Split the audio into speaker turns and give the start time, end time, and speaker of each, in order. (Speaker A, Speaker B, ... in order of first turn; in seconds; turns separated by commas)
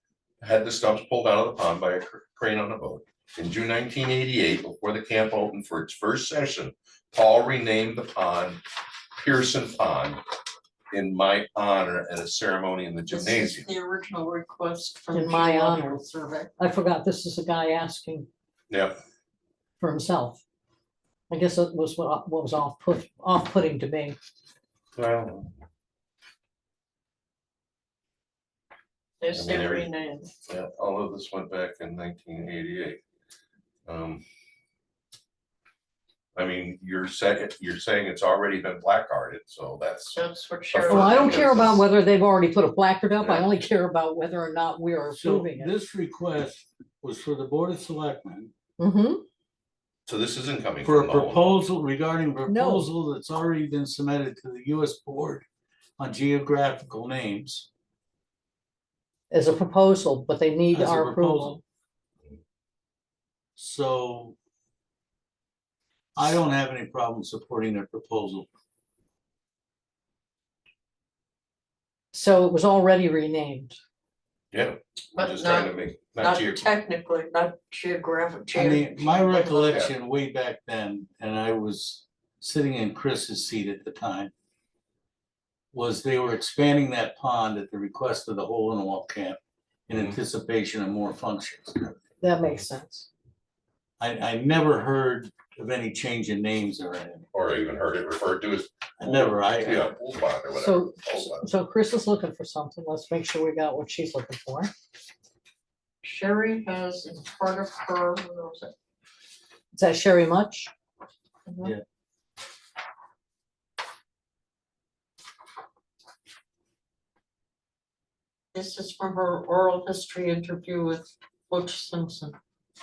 Speaker A: 0.4-8.6, Speaker A: 9.2-10.2, Speaker A: 10.9-13.7, Speaker B: 13.1-16.5, Speaker C: 15.1-16.0, Speaker C: 16.6-18.3, Speaker A: 18.7-18.9, Speaker C: 19.8-20.4, Speaker C: 21.3-24.2, Speaker A: 24.9-25.5, Speaker B: 29.2-30.3, Speaker A: 29.3-29.9, Speaker A: 30.5-33.0, Speaker A: 33.9-34.2, Speaker A: 36.4-41.8, Speaker B: 40.1-41.7, Speaker C: 40.9-45.7, Speaker A: 43.2-43.5, Speaker D: 45.1-48.5, Speaker C: 48.8-49.2, Speaker A: 50.1-51.6, Speaker D: 50.8-55.5, Speaker C: 52.5-52.9, Speaker D: 56.0-57.7, Speaker C: 59.3-61.6, Speaker D: 60.7-61.6, Speaker D: 63.6-64.4, Speaker D: 66.2-68.5, Speaker C: 72.1-73.8, Speaker A: 74.5-76.7, Speaker B: 75.1-79.8, Speaker D: 78.5-84.3, Speaker D: 85.7-92.0, Speaker A: 89.9-90.2, Speaker C: 92.2-93.1, Speaker D: 94.0-97.3, Speaker A: 97.3-101.5, Speaker D: 99.0-99.9, Speaker C: 100.5-104.7, Speaker B: 106.0-108.7, Speaker C: 109.7-110.7, Speaker B: 111.5-111.7, Speaker B: 118.5-122.4